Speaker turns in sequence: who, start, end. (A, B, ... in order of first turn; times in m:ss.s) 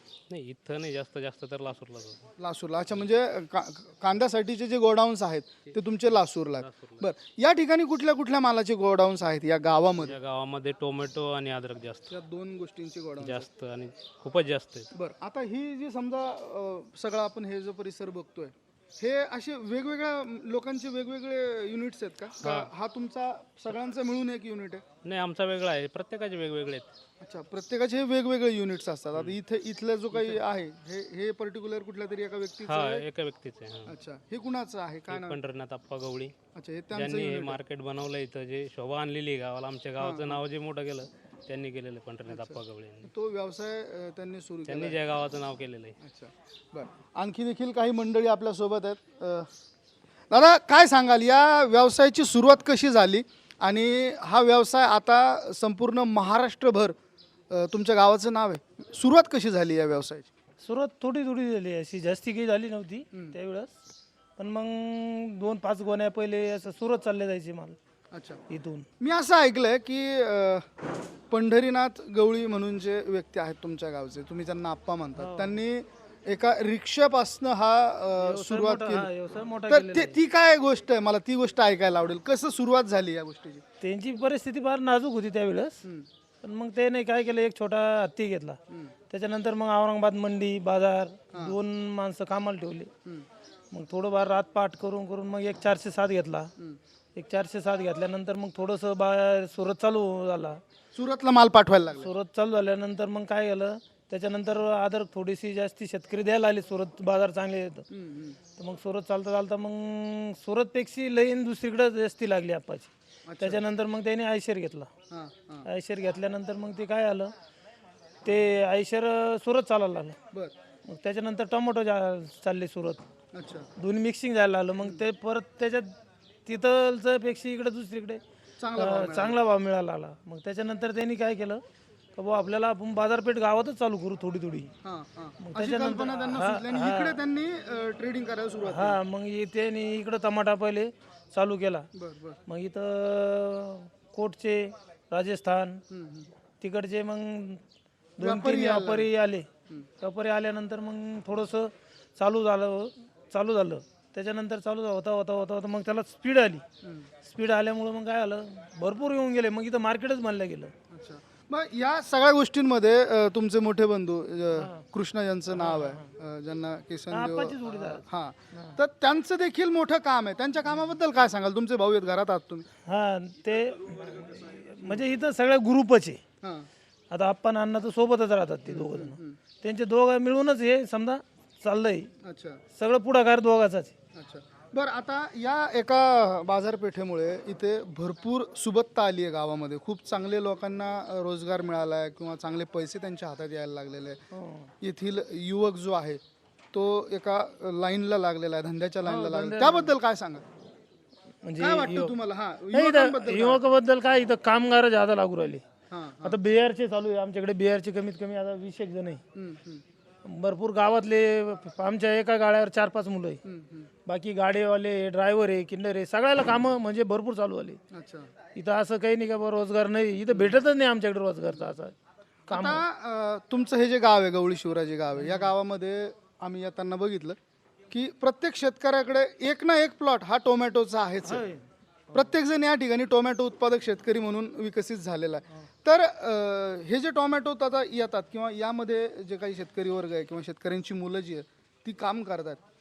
0:00.3-0:02.2 A
0:02.4-0:10.2 B
0:06.6-0:07.0 A
0:10.0-0:12.1 A
0:12.1-0:13.5 B
0:13.2-0:14.9 A
0:14.9-0:24.8 B
0:22.4-0:22.7 A
0:25.0-0:26.9 A
0:27.2-0:33.0 B
0:32.6-0:33.9 A
0:33.9-0:35.4 B
0:35.1-0:36.3 A
0:36.5-0:37.6 B
0:36.9-0:43.1 A
0:40.0-0:40.4 B
0:42.3-0:45.0 B
0:44.7-0:46.0 A
0:46.0-0:49.5 B
0:50.3-0:57.0 B
0:57.5-1:00.3 B
1:00.6-1:03.8 C
1:04.4-1:07.8 C
1:08.1-1:08.4 B
1:08.5-1:08.9 C
1:09.0-1:10.7 B
1:11.3-1:19.1 B
1:15.2-1:15.6 C
1:18.2-1:20.2 C
1:19.7-1:23.6 B
1:23.8-1:25.8 C
1:26.4-1:28.6 C
1:29.1-1:32.9 C
1:33.7-1:36.5 C
1:37.2-1:40.6 C
1:40.9-1:42.1 B
1:42.0-1:47.9 C
1:47.9-1:48.4 B
1:48.6-1:54.9 C
1:53.3-1:53.6 B
1:55.1-1:55.7 B
1:55.6-1:57.3 C
1:58.2-2:00.2 C
2:00.8-2:03.0 C
2:03.3-2:03.7 B
2:03.8-2:05.9 C
2:06.5-2:08.2 C
2:08.6-2:09.4 B
2:08.8-2:11.6 C
2:12.2-2:14.7 C
2:14.8-2:19.0 B
2:15.4-2:17.2 C
2:18.6-2:21.9 C
2:22.0-2:22.4 B
2:22.5-2:25.8 C
2:25.9-2:26.3 B
2:26.6-2:27.6 C
2:28.2-2:29.5 C
2:28.2-2:29.1 B
2:30.0-2:36.6 C
2:36.8-2:37.1 B
2:37.2-2:40.7 C
2:40.9-2:52.7 B
2:45.6-2:46.0 C
2:47.1-2:48.8 C
2:52.9-2:56.2 C
2:56.4-2:56.7 B
2:57.1-3:02.1 C
2:58.7-2:59.4 B
3:02.2-3:02.6 B
3:02.8-3:03.9 C
3:04.2-3:14.2 B
3:14.3-3:14.7 C
3:14.8-3:16.2 B
3:16.7-3:20.4 B
3:19.0-3:20.0 C
3:21.4-3:22.2 C
3:21.6-3:23.6 B
3:22.7-3:25.6 C
3:25.9-3:26.4 B
3:26.2-3:29.2 C
3:29.4-3:29.8 B
3:30.2-3:33.4 C
3:33.4-3:33.9 B
3:34.0-3:37.8 C
3:37.9-3:38.3 B
3:38.6-3:42.0 C
3:40.3-3:40.6 B
3:42.5-3:42.8 C
3:42.5-3:47.4 B
3:45.2-3:45.5 C
3:47.9-3:51.4 B
3:51.3-3:52.3 C
3:52.1-4:02.6 B